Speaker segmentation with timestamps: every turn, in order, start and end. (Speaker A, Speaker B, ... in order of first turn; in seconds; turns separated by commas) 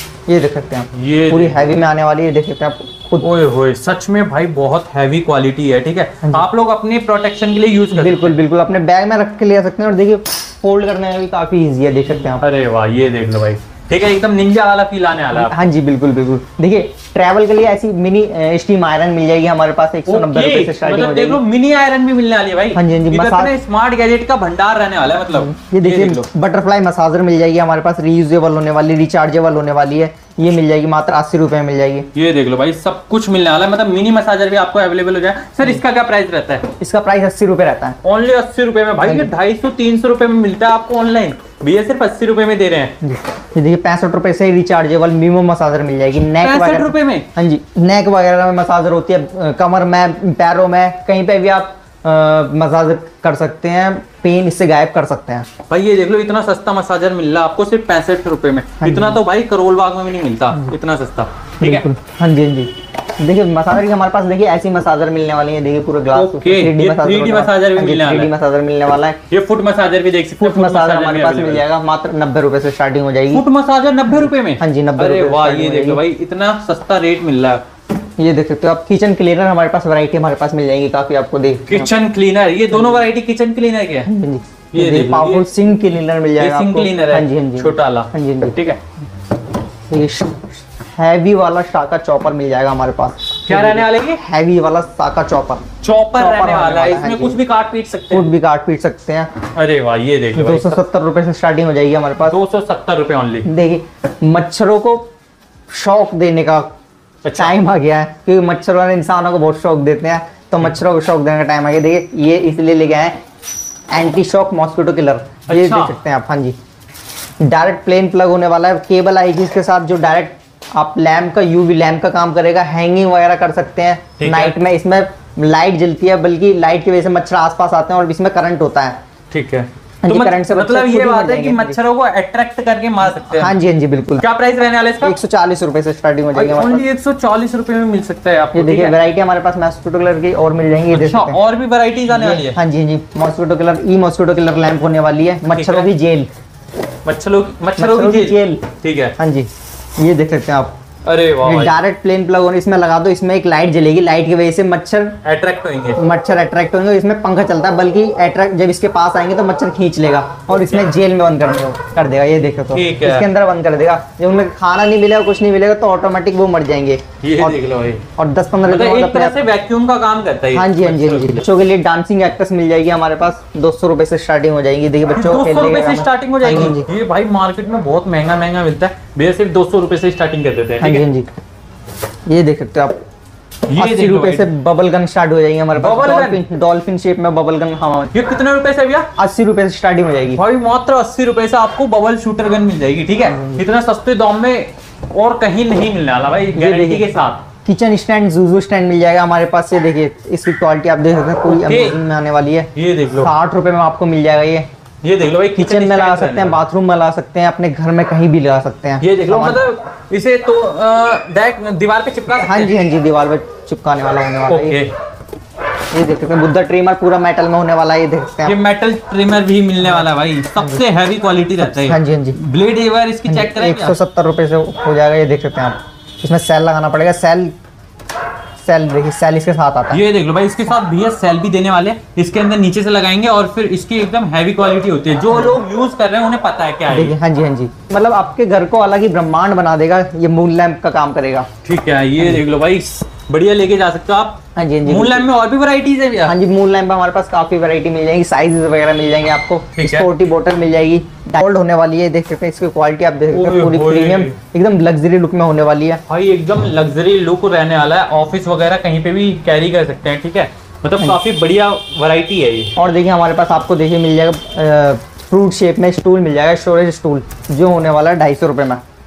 Speaker A: 0.3-3.3, Speaker B: 0.9-1.7, Speaker B: 3.2-8.3, Speaker A: 7.9-12.4, Speaker B: 12.4-15.6, Speaker A: 15.4-21.4, Speaker B: 20.1-26.2, Speaker A: 22.7-23.5, Speaker A: 25.3-32.1, Speaker B: 32.1-36.7, Speaker A: 36.8-38.0, Speaker B: 38.0-42.9, Speaker A: 39.0-39.3, Speaker A: 43.0-55.5, Speaker B: 46.4-47.3, Speaker B: 55.7-61.9, Speaker A: 58.8-59.2, Speaker A: 61.6-69.2, Speaker B: 66.1-68.3, Speaker B: 69.3-71.6, Speaker A: 70.4-73.4, Speaker B: 73.3-77.6, Speaker A: 74.1-76.0, Speaker A: 78.2-81.9, Speaker B: 81.7-84.1, Speaker A: 84.0-88.6, Speaker B: 84.7-85.5, Speaker B: 86.4-88.8, Speaker A: 89.9-97.4, Speaker B: 93.5-94.2, Speaker B: 95.8-98.3, Speaker A: 98.1-99.3, Speaker B: 99.5-100.8, Speaker A: 100.3-102.4, Speaker B: 102.2-103.5, Speaker A: 103.4-105.1, Speaker A: 105.7-106.7, Speaker B: 107.2-107.5, Speaker A: 107.4-113.2, Speaker A: 113.9-116.5, Speaker B: 115.5-116.0, Speaker A: 117.4-129.0, Speaker B: 124.2-124.6, Speaker B: 129.3-133.6, Speaker A: 130.0-131.8, Speaker A: 133.3-134.2, Speaker B: 134.2-135.2, Speaker A: 135.0-136.8, Speaker B: 136.3-138.9, Speaker A: 138.5-141.4, Speaker B: 140.9-142.6, Speaker A: 142.1-146.3, Speaker B: 145.5-145.9, Speaker B: 147.0-149.1, Speaker A: 147.8-148.6, Speaker A: 149.2-150.8, Speaker B: 151.0-151.8, Speaker A: 151.4-155.2, Speaker B: 155.2-156.0, Speaker A: 156.0-167.6, Speaker B: 160.5-160.9, Speaker B: 162.7-163.3, Speaker B: 167.2-168.0, Speaker A: 168.2-169.4, Speaker B: 168.7-171.4, Speaker A: 170.5-176.9, Speaker B: 175.1-181.0, Speaker A: 180.8-181.3, Speaker A: 182.3-183.0, Speaker B: 183.7-184.5, Speaker A: 183.8-188.1, Speaker B: 185.8-186.4, Speaker B: 188.1-189.1, Speaker A: 189.2-190.4, Speaker B: 190.3-197.4, Speaker A: 193.3-193.6, Speaker A: 196.5-197.1, Speaker A: 197.6-204.7, Speaker B: 201.4-202.0, Speaker B: 202.7-203.3, Speaker B: 205.0-206.6, Speaker A: 205.6-209.6, Speaker B: 209.0-212.8, Speaker A: 212.3-214.8, Speaker B: 214.5-214.9, Speaker A: 215.9-218.6, Speaker B: 218.4-224.0, Speaker A: 221.6-222.4, Speaker A: 223.2-227.5, Speaker A: 228.6-230.0, Speaker B: 229.9-237.2, Speaker A: 236.9-241.5, Speaker B: 241.6-246.3, Speaker A: 244.6-245.3, Speaker A: 246.2-256.0, Speaker B: 249.8-250.1, Speaker B: 253.3-254.3, Speaker B: 256.1-262.7, Speaker A: 262.8-268.8